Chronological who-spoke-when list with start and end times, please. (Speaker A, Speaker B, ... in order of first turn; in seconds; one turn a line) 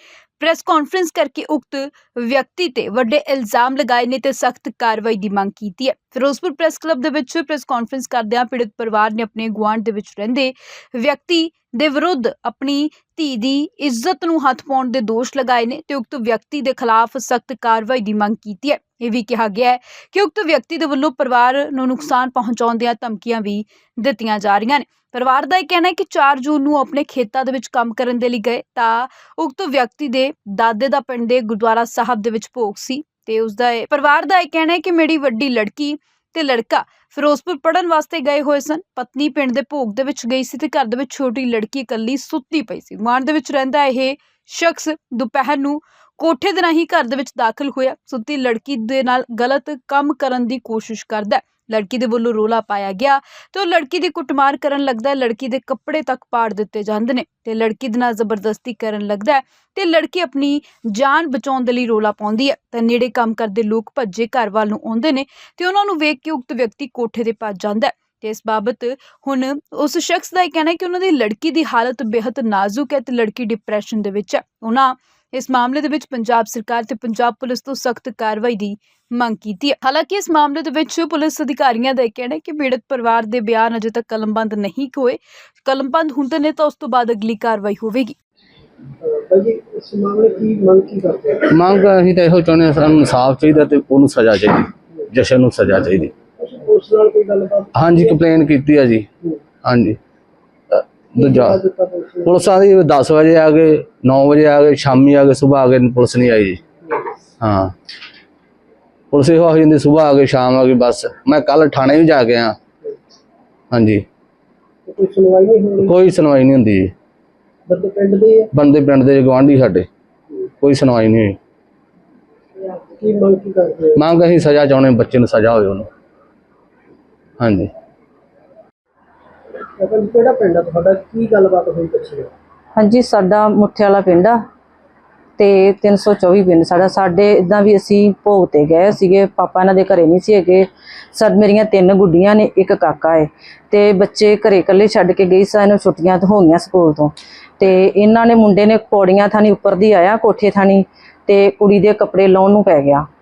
Speaker A: 0.4-88.2
Speaker B: 89.0-91.5
Speaker C: 91.5-96.1
Speaker B: 96.4-98.2
Speaker C: 97.8-99.1
Speaker C: 99.6-100.0
Speaker C: 100.7-101.6
Speaker B: 101.2-102.3
Speaker C: 102.3-106.6
Speaker C: 107.4-107.7
Speaker C: 109.1-112.6
Speaker C: 113.7-114.0
Speaker B: 114.9-115.9
Speaker C: 115.8-116.9
Speaker B: 117.7-118.5
Speaker C: 118.5-119.9
Speaker C: 120.6-121.4
Speaker B: 123.0-124.0
Speaker C: 124.0-125.9
Speaker C: 127.4-127.7
Speaker B: 129.8-132.3
Speaker D: 132.8-134.4
Speaker D: 135.4-153.1